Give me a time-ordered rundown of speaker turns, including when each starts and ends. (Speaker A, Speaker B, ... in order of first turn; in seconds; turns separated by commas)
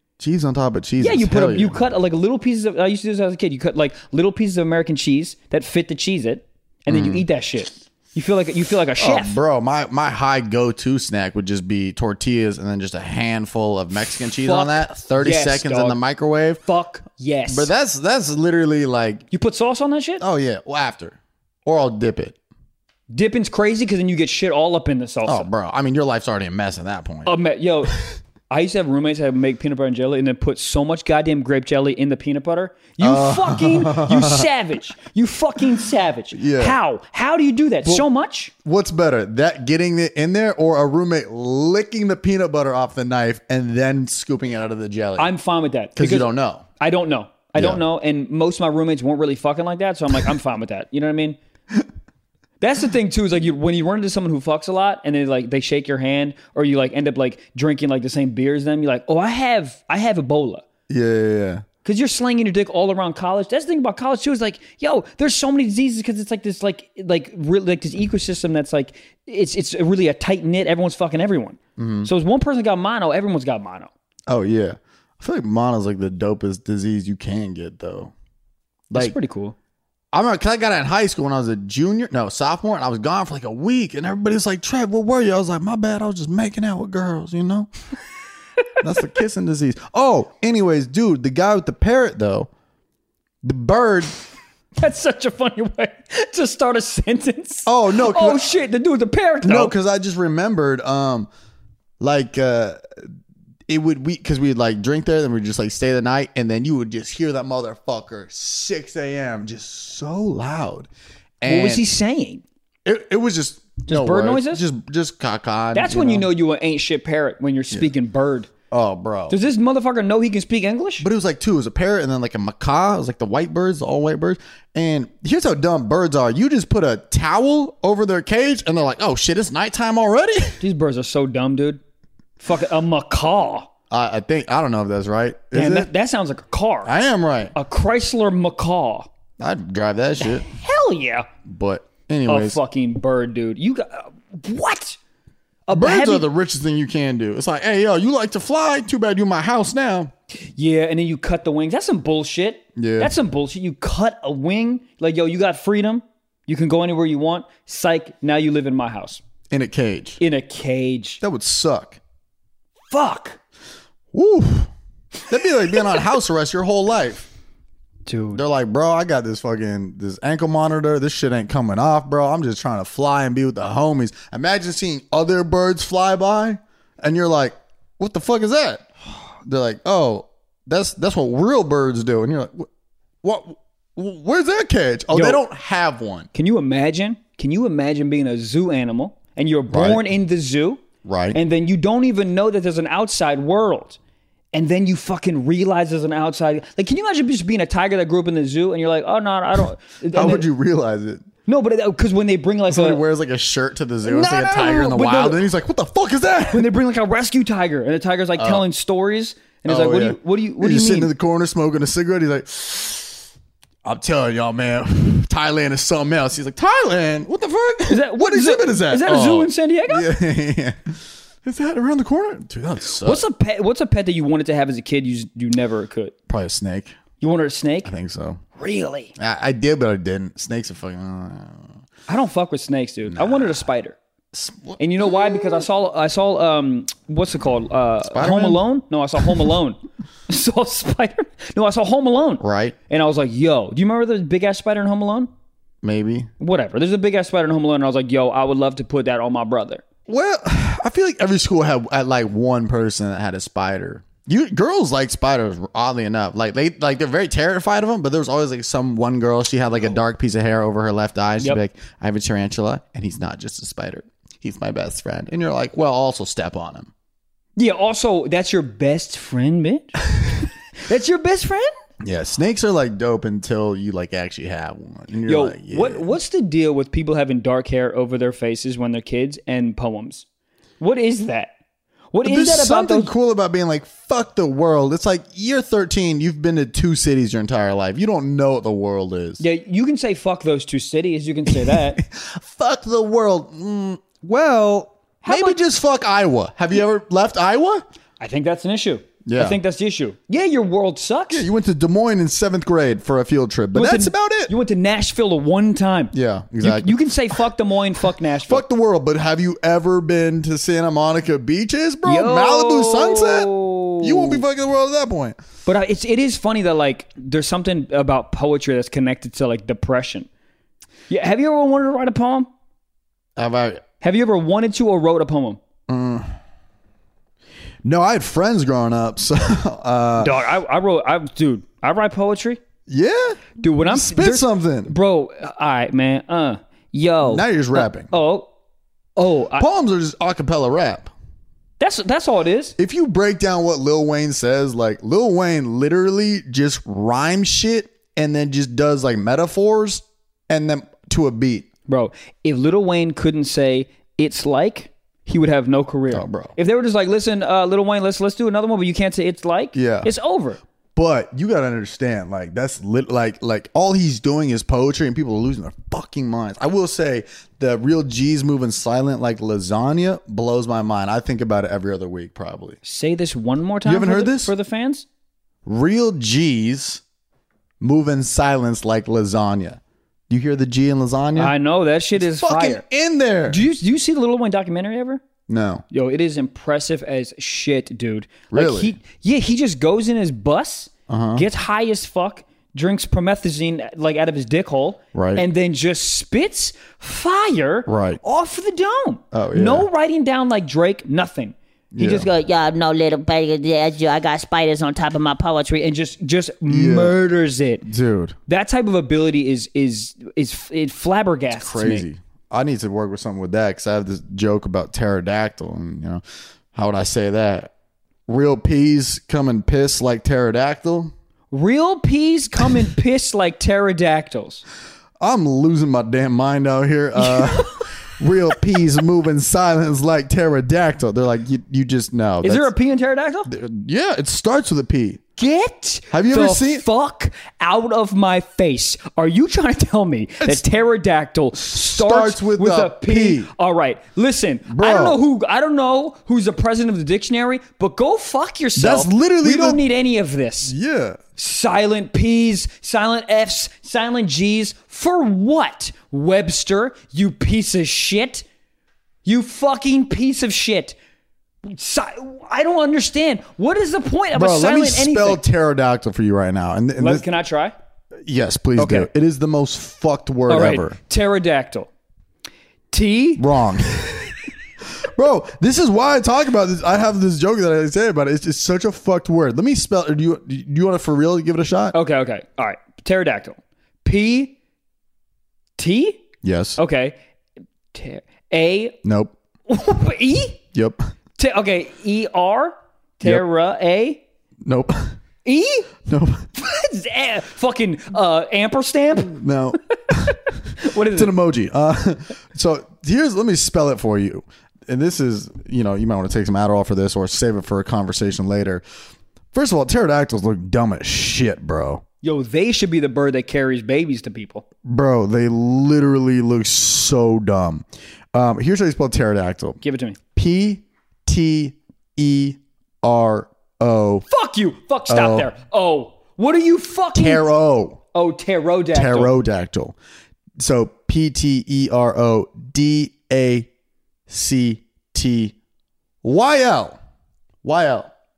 Speaker A: 0.2-1.8, Speaker B: 1.0-9.4, Speaker A: 6.9-7.3, Speaker A: 9.0-16.6, Speaker B: 14.4-16.0, Speaker B: 16.6-17.7, Speaker A: 17.5-19.2, Speaker B: 19.3-20.2, Speaker A: 20.2-22.4, Speaker B: 23.1-25.5, Speaker A: 25.2-27.3, Speaker B: 27.3-27.9, Speaker B: 28.5-38.5, Speaker A: 33.0-34.5, Speaker A: 36.3-36.8, Speaker A: 38.6-45.3, Speaker B: 45.2-51.4, Speaker A: 46.0-46.6, Speaker A: 47.6-47.8, Speaker B: 52.6-60.6, Speaker A: 60.9-61.6, Speaker B: 61.8-73.9, Speaker A: 71.8-72.1, Speaker A: 74.3-78.1, Speaker A: 78.9-79.2, Speaker B: 78.9-79.5, Speaker A: 80.1-87.7, Speaker A: 88.8-92.5, Speaker A: 93.4-94.1, Speaker B: 94.8-99.8, Speaker A: 97.7-98.5, Speaker A: 99.4-101.3, Speaker A: 102.0-102.8, Speaker A: 103.7-110.9, Speaker A: 111.4-111.8, Speaker B: 111.5-112.4, Speaker A: 112.8-116.3, Speaker B: 113.9-114.6, Speaker B: 115.7-118.5, Speaker A: 118.7-119.4, Speaker B: 119.3-121.1, Speaker A: 121.0-130.6, Speaker B: 130.6-131.8, Speaker B: 132.4-133.7, Speaker A: 133.9-135.9, Speaker B: 135.5-136.9, Speaker A: 136.9-137.5, Speaker B: 137.6-139.1, Speaker A: 139.4-140.5, Speaker B: 140.2-141.3, Speaker A: 141.4-142.6, Speaker B: 142.3-145.0, Speaker B: 145.7-146.3, Speaker A: 145.7-150.1, Speaker B: 150.6-159.2, Speaker A: 152.8-153.1, Speaker A: 159.5-160.2, Speaker B: 160.2-161.2, Speaker A: 161.2-162.0, Speaker B: 162.9-163.4, Speaker A: 164.1-164.7, Speaker A: 165.3-167.3, Speaker B: 168.1-168.4, Speaker A: 168.3-178.9, Speaker A: 179.4-182.7, Speaker A: 183.2-186.3, Speaker B: 185.1-185.4, Speaker B: 186.3-194.0, Speaker A: 189.7-190.0, Speaker A: 191.0-191.4, Speaker B: 194.5-200.5, Speaker A: 200.1-201.2, Speaker B: 201.5-203.0, Speaker A: 202.7-206.7, Speaker B: 204.0-205.5, Speaker B: 206.5-211.1, Speaker A: 208.4-208.7, Speaker A: 209.7-213.2, Speaker A: 213.8-223.2, Speaker B: 217.9-220.1, Speaker B: 223.0-226.1, Speaker A: 226.3-227.0, Speaker B: 227.2-227.9, Speaker A: 227.8-228.4, Speaker B: 228.6-229.1, Speaker A: 229.2-231.7, Speaker B: 232.1-234.0, Speaker A: 233.1-233.5, Speaker A: 234.3-235.5, Speaker B: 234.8-245.3, Speaker A: 238.0-238.6, Speaker A: 242.4-242.8, Speaker A: 245.8-246.3, Speaker B: 246.4-249.8, Speaker A: 250.1-266.9, Speaker B: 267.6-271.7, Speaker A: 272.0-276.1, Speaker B: 275.3-280.2, Speaker B: 280.8-281.5, Speaker B: 282.1-283.1, Speaker A: 282.2-289.4, Speaker B: 289.4-292.0, Speaker A: 291.5-297.9, Speaker B: 295.2-295.6, Speaker B: 298.2-301.5, Speaker A: 299.2-299.6, Speaker A: 301.3-304.5, Speaker B: 303.7-308.6, Speaker A: 306.1-307.0, Speaker A: 308.4-315.4, Speaker B: 312.1-314.4, Speaker B: 315.7-320.3, Speaker B: 321.1-322.5, Speaker A: 323.4-323.8, Speaker B: 324.0-325.6, Speaker A: 325.9-326.3, Speaker A: 327.8-330.4, Speaker B: 330.2-332.6, Speaker A: 332.9-334.9, Speaker B: 333.6-338.5, Speaker A: 337.2-338.1, Speaker B: 339.2-339.7, Speaker A: 339.6-341.1, Speaker B: 341.8-342.8, Speaker A: 342.8-351.7, Speaker B: 351.9-360.6, Speaker A: 356.1-356.6, Speaker A: 359.8-360.1, Speaker A: 360.9-372.8, Speaker B: 372.8-375.1, Speaker A: 373.9-374.5, Speaker A: 375.6-377.0, Speaker A: 377.8-381.5, Speaker B: 381.4-382.8, Speaker A: 382.2-383.6, Speaker B: 383.5-385.2, Speaker A: 385.5-385.8, Speaker B: 385.9-402.3, Speaker A: 388.5-388.9, Speaker A: 391.1-391.5, Speaker A: 395.1-395.5, Speaker A: 397.9-398.2, Speaker A: 399.3-399.9, Speaker A: 401.9-402.3, Speaker C: 402.2-405.8, Speaker B: 405.7-407.9, Speaker A: 406.7-407.2, Speaker A: 407.9-408.4, Speaker B: 408.5-412.1, Speaker A: 411.5-416.2, Speaker A: 416.7-417.7, Speaker A: 418.3-421.1, Speaker B: 421.5-424.6, Speaker A: 425.2-432.7, Speaker B: 427.2-427.9, Speaker B: 432.4-433.5, Speaker A: 433.5-435.2, Speaker B: 435.4-450.7, Speaker A: 436.1-436.9, Speaker A: 441.6-443.5, Speaker A: 444.7-445.2, Speaker A: 448.8-449.8, Speaker A: 450.6-451.2, Speaker B: 451.4-458.4, Speaker B: 459.2-461.0, Speaker B: 461.6-465.4, Speaker A: 464.3-467.2, Speaker B: 467.0-467.8, Speaker A: 468.3-471.0, Speaker B: 468.8-469.1, Speaker B: 470.5-471.9, Speaker B: 472.9-473.4, Speaker A: 473.4-474.4, Speaker A: 475.0-482.0, Speaker B: 481.9-484.6, Speaker B: 485.8-486.2, Speaker A: 486.4-486.8, Speaker B: 486.8-487.2, Speaker B: 487.9-489.0, Speaker A: 489.0-489.4, Speaker B: 489.7-490.6, Speaker B: 491.4-494.2, Speaker A: 494.6-495.2, Speaker B: 495.4-495.9, Speaker A: 496.1-496.5, Speaker B: 496.6-499.4, Speaker A: 499.3-508.8, Speaker B: 500.3-501.4, Speaker A: 509.5-512.0, Speaker B: 512.2-514.6, Speaker A: 514.9-519.8, Speaker B: 519.8-520.2, Speaker A: 520.4-524.3, Speaker B: 524.3-527.5, Speaker A: 525.1-525.5, Speaker A: 527.1-528.0, Speaker B: 528.1-529.3, Speaker A: 528.9-530.0, Speaker A: 530.6-533.7, Speaker A: 534.3-535.5, Speaker A: 536.2-537.0, Speaker A: 537.6-538.1